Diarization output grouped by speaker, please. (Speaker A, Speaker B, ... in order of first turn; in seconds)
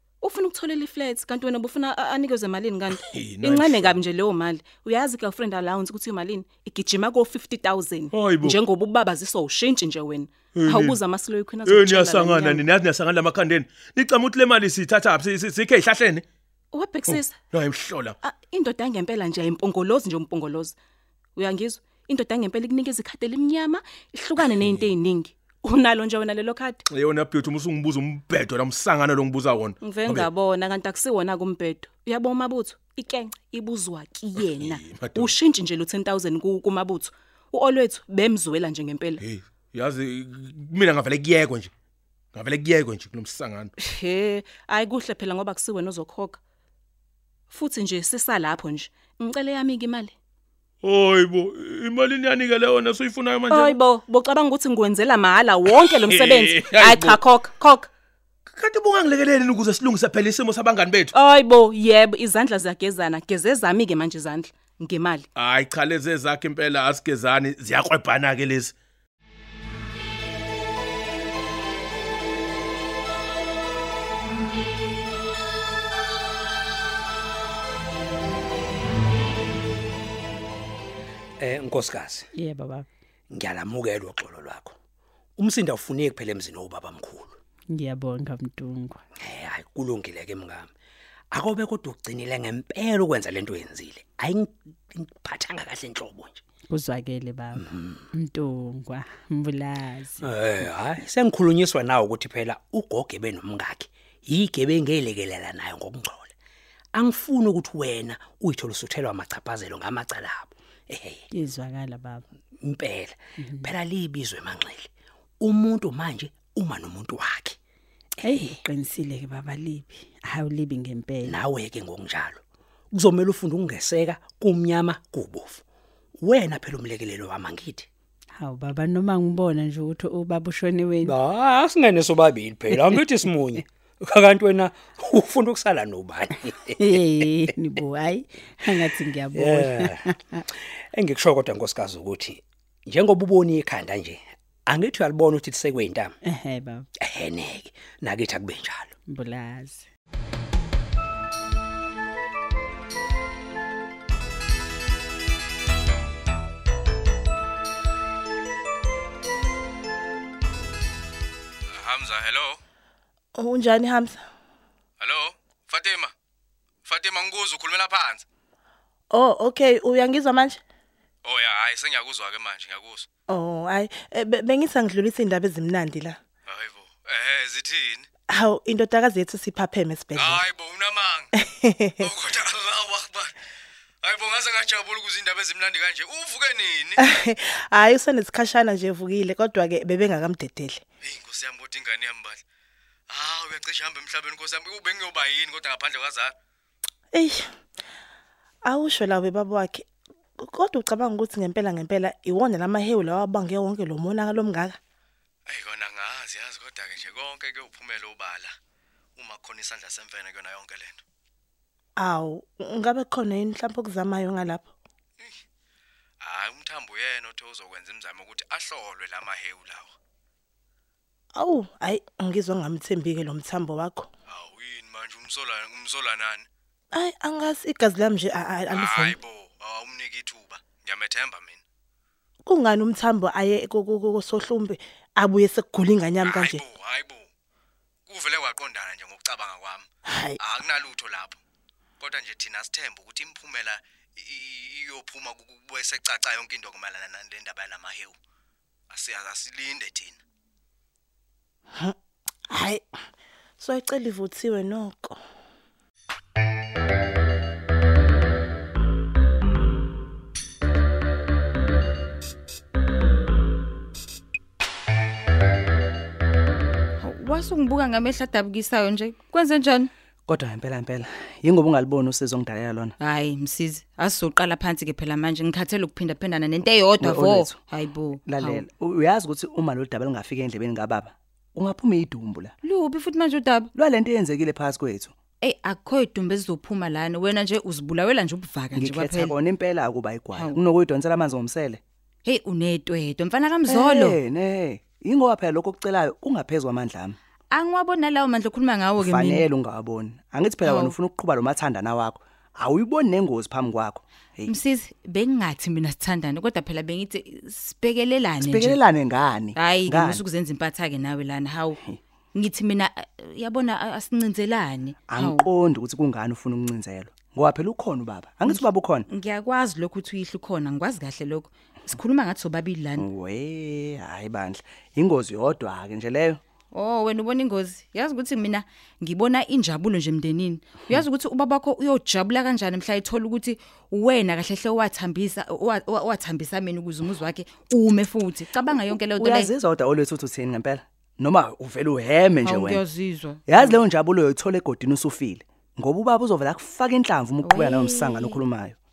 Speaker A: 0.2-12.7, 16.7-17.4, 18.2-20.8, 21.4-26.8, 29.8-39.2, 43.8-46.4, 47.5-50.1, 53.5-57.9, 61.1-65.3
Speaker B: 3.2-3.5, 8.2-8.5, 12.8-16.2, 17.6-18.1, 27.0-29.8, 39.7-41.7, 42.4-43.7, 50.8-53.7, 56.8-57.1, 58.6-61.1, 65.4-68.7
Speaker C: 81.4-82.3, 83.3-84.8, 85.4-87.4, 89.2-90.7, 91.3-96.4, 97.5-98.0, 100.2-106.3, 106.9-111.2, 112.6-114.9, 115.4-117.6, 118.2-118.6, 121.2-125.6, 126.2-127.9, 131.0-136.8, 139.3-140.1, 140.8-146.2, 147.0-148.9
Speaker D: 82.3-82.9, 87.7-89.0, 96.7-100.3, 111.3-112.2, 113.4-113.7, 118.2-121.4, 128.4-131.2, 136.7-140.4, 146.2-146.9, 149.1-149.8
Speaker E: 161.7-162.6, 165.0-166.1, 166.8-168.2, 171.2-173.1, 176.5-178.1, 180.2-181.3, 182.0-183.4, 184.0-187.0, 191.0-192.4, 193.1-196.3, 205.5-208.6, 209.2-211.0, 216.2-219.9, 224.3-226.5, 228.7-231.6, 236.2-237.3, 238.1-239.9, 240.4-241.4, 242.0-248.2, 248.9-250.2
Speaker F: 163.3-164.2, 169.1-170.6, 173.3-176.2, 178.3-180.4, 181.4-182.1, 187.0-190.8, 197.1-197.5, 198.6-199.8, 200.4-204.8, 212.0-214.7, 221.3-224.1, 226.9-229.2, 232.5-236.6, 240.1-240.4, 252.5-252.8, 253.6-255.2
Speaker G: 267.0-269.9, 273.0-278.6, 282.6-283.7, 285.4-289.4, 292.2-294.2, 297.5-299.4, 300.6-300.9, 304.5-308.8, 309.6-311.8, 312.3-315.5, 318.5-323.1, 326.7-339.5, 342.4-343.8, 347.4-348.4
Speaker H: 270.3-272.9, 277.0-277.6, 278.3-282.5, 283.7-285.1, 288.8-291.8, 293.7-297.2, 299.0-304.5, 308.4-310.2, 315.1-319.1, 323.0-326.4, 338.7-342.8, 343.5-348.8